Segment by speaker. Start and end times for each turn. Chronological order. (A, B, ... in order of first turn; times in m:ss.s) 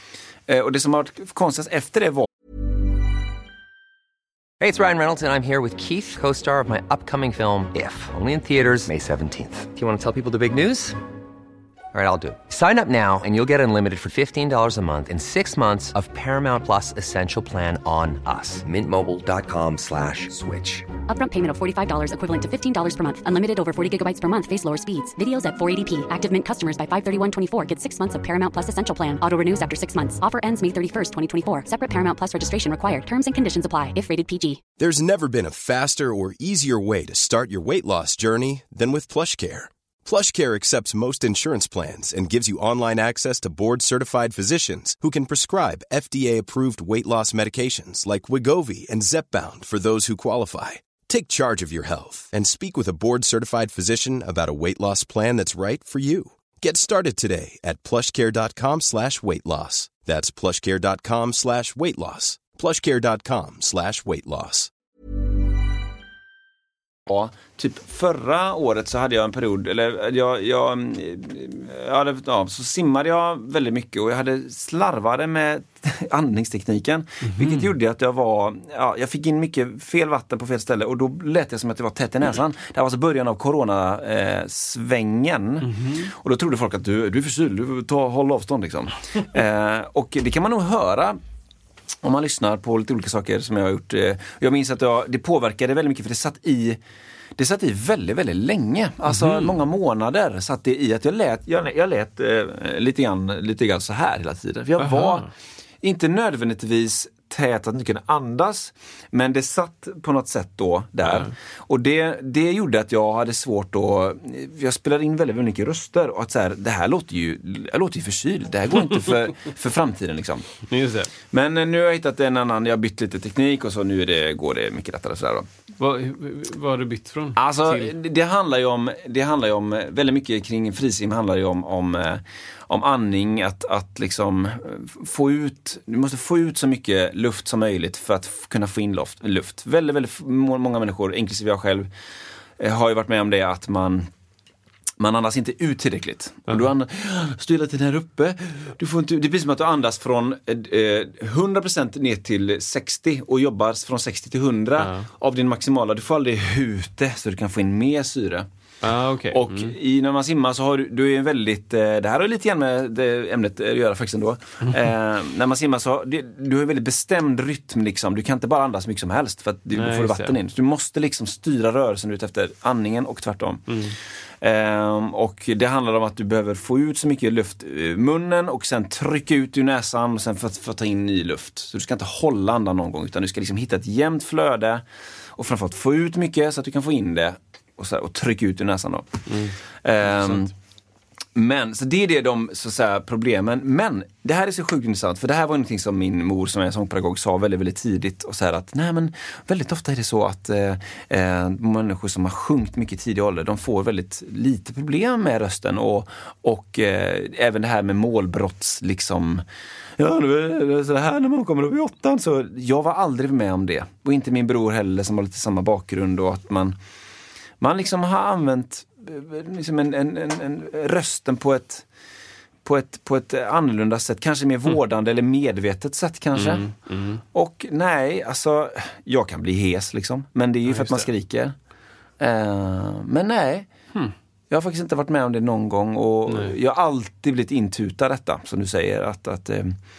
0:00.5-0:02.3 A
0:04.6-0:11.0 B
0:11.9-0:20.9 B
0:21.1-0:34.6 C
0:34.8-1:04.7 D
1:07.1-1:31.2 A
1:17.2-1:17.7 E
1:25.6-1:26.1 E
1:32.0-1:36.8 A
1:37.4-1:45.3 A
1:39.1-1:39.5 E
1:44.8-1:45.3 E
1:45.8-2:00.5 A
1:51.0-1:51.3 E
2:00.6-2:01.1 E
2:01.3-2:05.4 A
2:05.8-2:07.9 E
2:07.4-2:21.9 A
2:22.6-2:24.1 A
2:25.0-2:38.5 A
2:34.8-2:35.1 E
2:38.8-2:39.8 E
2:39.3-2:53.8 A
2:44.6-2:44.9 E
2:49.7-2:50.4 E
2:53.7-2:53.9 E
2:54.4-3:04.8 A
3:05.4-3:09.3 A
3:09.3-3:10.5 E
3:09.8-3:10.5 A
3:11.3-3:29.4 A
3:30.0-3:36.8 A
3:37.6-3:41.8 A
3:42.6-3:46.6 A
3:46.4-3:47.2 E
3:47.3-3:51.5 A
3:50.6-3:51.1 E
3:52.2-3:53.7 A
3:54.5-3:59.8 A
3:56.3-3:56.6 E